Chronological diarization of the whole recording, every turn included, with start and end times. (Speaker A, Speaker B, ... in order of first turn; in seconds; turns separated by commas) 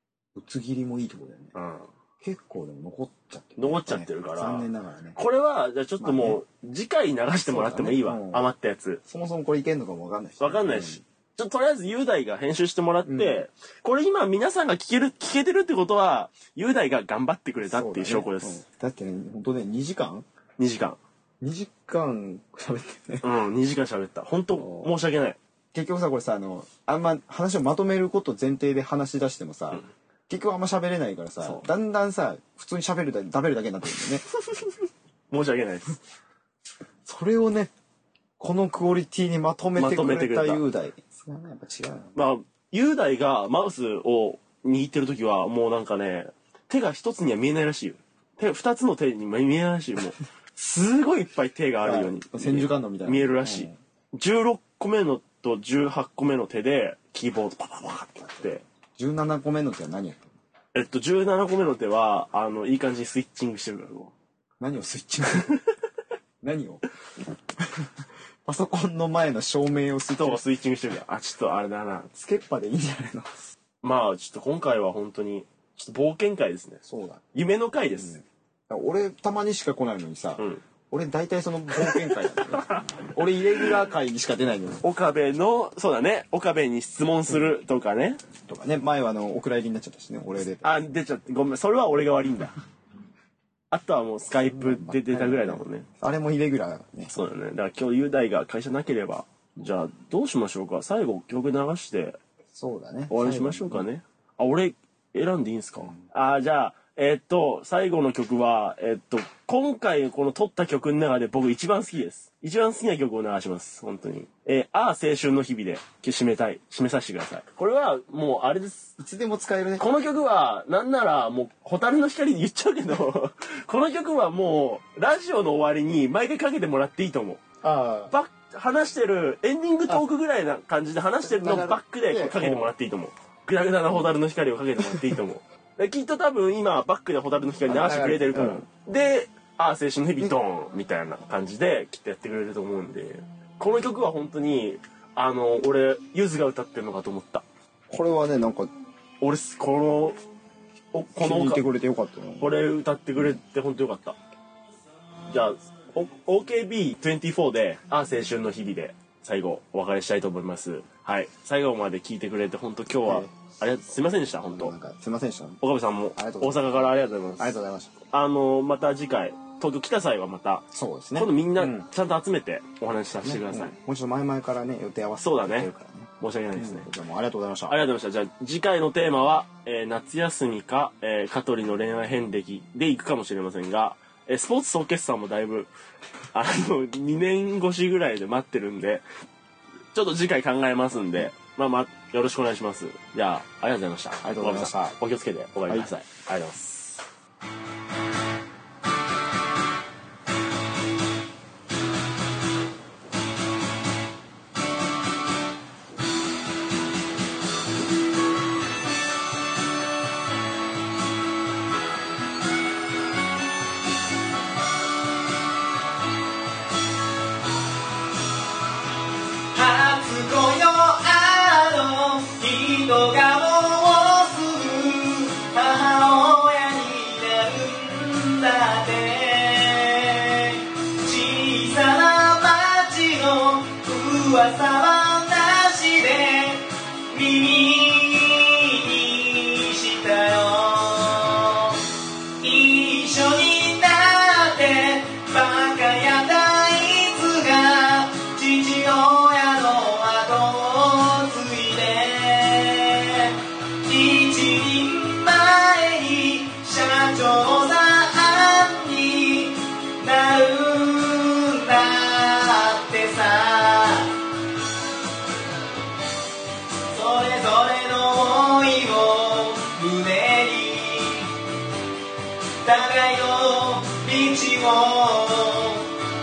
Speaker A: 0.3-1.5, Speaker B: 1.5-1.9, Speaker A: 2.2-5.2, Speaker B: 3.6-9.0, Speaker A: 6.0-6.4, Speaker A: 7.5-8.4, Speaker A: 9.1-11.0, Speaker B: 10.4-18.6, Speaker A: 13.1-13.4, Speaker A: 17.6-20.2, Speaker B: 20.6-21.0, Speaker A: 21.4-23.3, Speaker B: 23.2-25.4, Speaker A: 24.5-24.9, Speaker A: 25.7-34.2, Speaker B: 35.3-36.0, Speaker A: 37.0-37.7, Speaker A: 38.4-42.1, Speaker B: 39.8-40.6, Speaker B: 42.1-58.6, Speaker A: 51.8-53.8, Speaker A: 59.0-60.3, Speaker B: 60.7-64.1, Speaker A: 64.6-65.6, Speaker A: 66.4-66.8, Speaker A: 68.4-70.4, Speaker B: 70.2-72.1, Speaker A: 72.1-73.4, Speaker B: 73.8-78.2, Speaker A: 76.8-77.2, Speaker A: 78.0-84.8, Speaker B: 81.8-83.0, Speaker B: 84.8-88.2, Speaker A: 88.4-90.8, Speaker B: 90.6-92.5, Speaker B: 93.7-95.9, Speaker A: 94.5-97.1, Speaker B: 97.1-102.2, Speaker A: 102.5-103.8, Speaker B: 103.1-118.9, Speaker A: 119.0-119.9, Speaker B: 119.8-127.4, Speaker A: 127.6-128.1, Speaker B: 128.1-147.4, Speaker A: 131.2-132.7, Speaker A: 137.7-138.7, Speaker A: 147.9-148.7, Speaker B: 149.2-150.2, Speaker B: 150.9-151.6, Speaker A: 151.2-152.5, Speaker B: 152.4-154.2, Speaker B: 155.3-164.7, Speaker A: 163.0-163.3, Speaker A: 164.5-165.6, Speaker B: 165.6-167.5, Speaker A: 166.1-166.8, Speaker A: 167.4-168.0, Speaker B: 168.1-173.7, Speaker A: 170.7-171.9, Speaker A: 173.2-177.8, Speaker B: 175.2-176.9, Speaker B: 177.7-185.7, Speaker B: 186.3-189.0, Speaker B: 189.9-197.0, Speaker A: 194.2-194.9, Speaker C: 219.5-241.8, Speaker C: 242.4-264.1, Speaker C: 266.9-271.3, Speaker C: 272.6-275.9